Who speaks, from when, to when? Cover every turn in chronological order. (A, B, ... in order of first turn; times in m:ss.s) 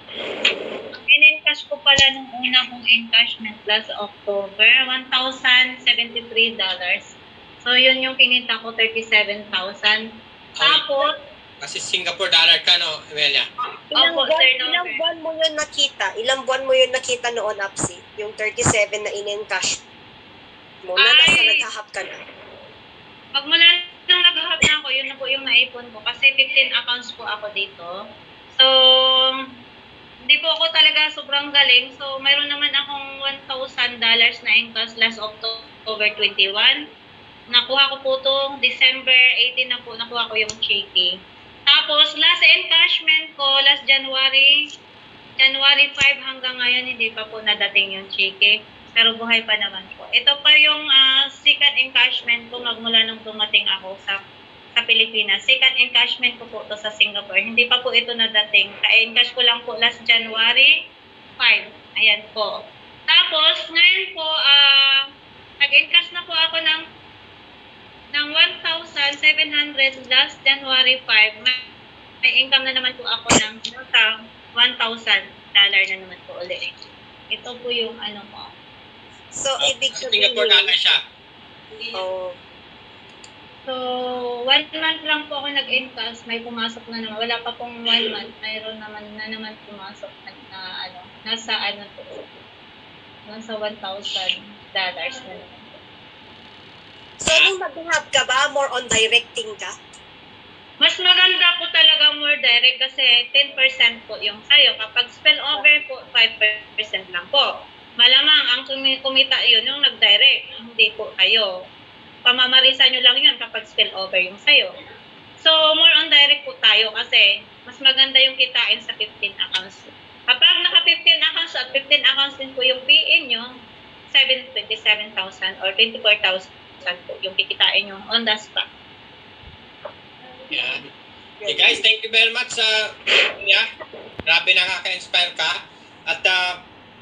0:01.0-0:10.0 A
0:10.6-0:11.0 B
0:10.6-0:11.1 A
0:11.6-0:13.5 B
0:13.9-0:19.8 C
0:14.0-0:15.0 A
0:20.8-0:22.1 C
0:21.0-0:21.6 A
0:23.4-0:27.9 A
0:28.5-0:29.4 A
0:30.3-0:36.8 A
0:37.5-0:41.1 A
0:41.7-0:44.6 A
0:45.4-0:54.2 A
0:54.8-1:00.7 A
1:01.4-1:02.5 A
1:03.1-1:05.1 A
1:05.6-1:06.9 A
1:08.1-1:11.7 A
1:12.2-1:16.7 A
1:17.3-1:18.5 A
1:19.3-1:20.7 C
1:19.6-1:21.0 B
1:21.9-1:22.4 C
1:23.7-1:32.3 A
1:33.3-1:35.7 A
1:37.2-1:39.7 C
1:40.8-1:47.5 A
1:48.0-1:51.5 A
1:52.3-1:54.7 A
1:55.4-2:03.5 A
2:04.1-2:08.7 A
2:10.5-2:10.9 B
2:11.4-2:13.7 B
2:14.3-2:16.6 B